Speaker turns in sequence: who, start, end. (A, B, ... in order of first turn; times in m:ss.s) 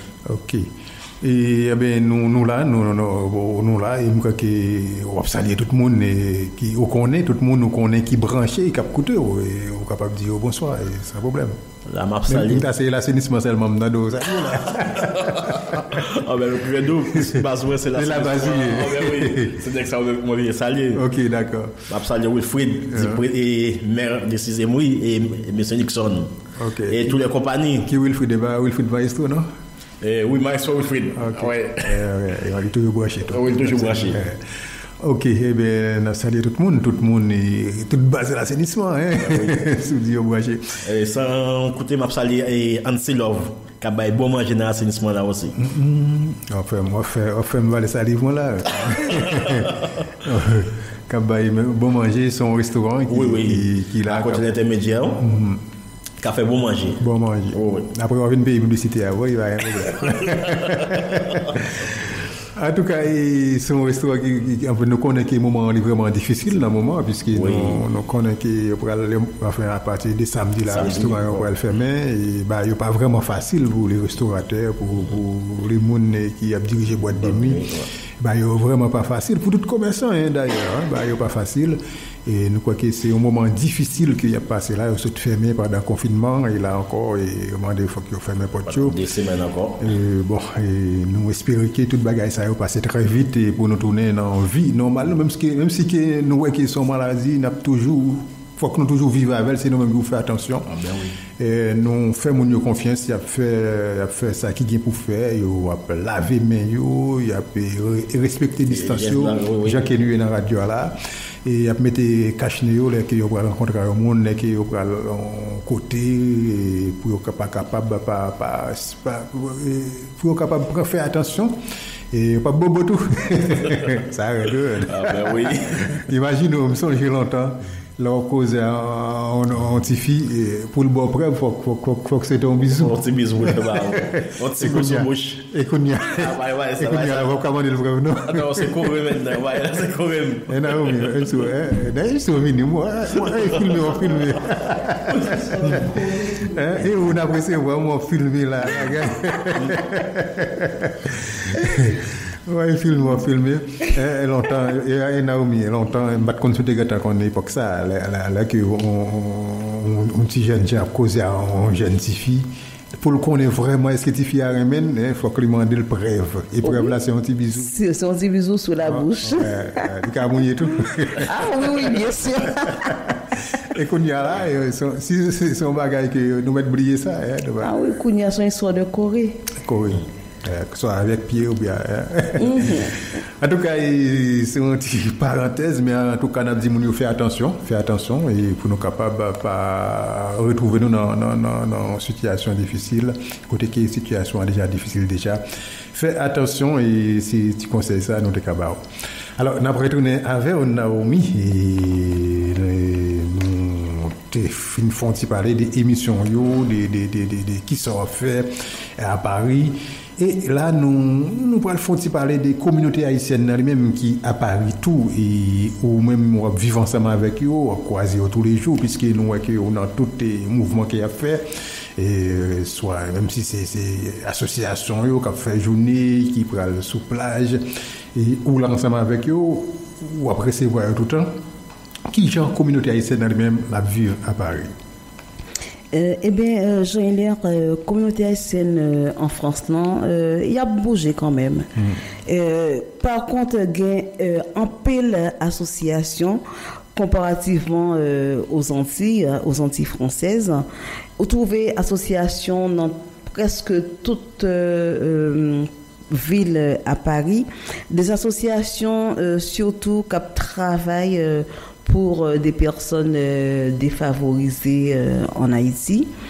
0:00.3-0:00.7 A
0:01.2-0:11.6 A
0:11.9-0:12.7 B
0:12.3-0:16.0 A
0:14.5-0:21.0 B
0:17.9-0:19.6 A
0:20.9-0:21.9 A
0:21.9-0:26.3 B
0:22.9-0:23.2 A
0:26.6-0:27.3 A
0:26.9-0:27.9 B
0:27.8-0:29.5 A
0:30.0-0:32.0 B
0:31.1-0:34.4 A
0:33.3-0:34.2 B
0:35.0-0:40.9 A
0:39.2-0:39.6 B
0:40.8-0:45.6 B
0:45.6-0:54.5 A
0:49.1-0:49.5 B
0:53.1-0:55.2 B
0:55.2-0:55.6 A
0:56.2-0:57.0 B
0:57.0-1:17.7 A
0:57.5-0:57.9 B
1:00.1-1:01.2 B
1:07.3-1:07.8 B
1:10.7-1:11.4 B
1:17.2-1:17.9 B
1:18.2-1:29.0 A
1:28.7-1:29.8 B
1:29.8-1:40.7 A
1:40.7-1:41.1 B
1:41.4-2:01.6 A
1:48.7-1:49.9 B
2:02.1-2:19.1 A
2:04.9-2:06.0 B
2:12.6-2:15.4 B
2:16.1-2:17.4 B
2:18.2-2:21.3 B
2:20.5-2:47.7 A
2:23.2-2:24.4 B
2:25.1-2:25.8 B
2:46.6-2:46.9 C
2:47.6-2:49.9 C
2:48.8-2:52.0 A
2:51.2-2:52.9 C
2:52.7-2:57.7 A
2:57.6-2:59.4 C
2:59.6-3:18.8 A
3:02.4-3:02.9 C
3:19.4-3:41.4 A
3:42.0-3:51.3 A
3:52.1-3:54.7 A
3:55.9-4:01.7 C
4:02.3-4:06.4 C
4:07.0-4:10.7 C
4:11.2-4:26.1 C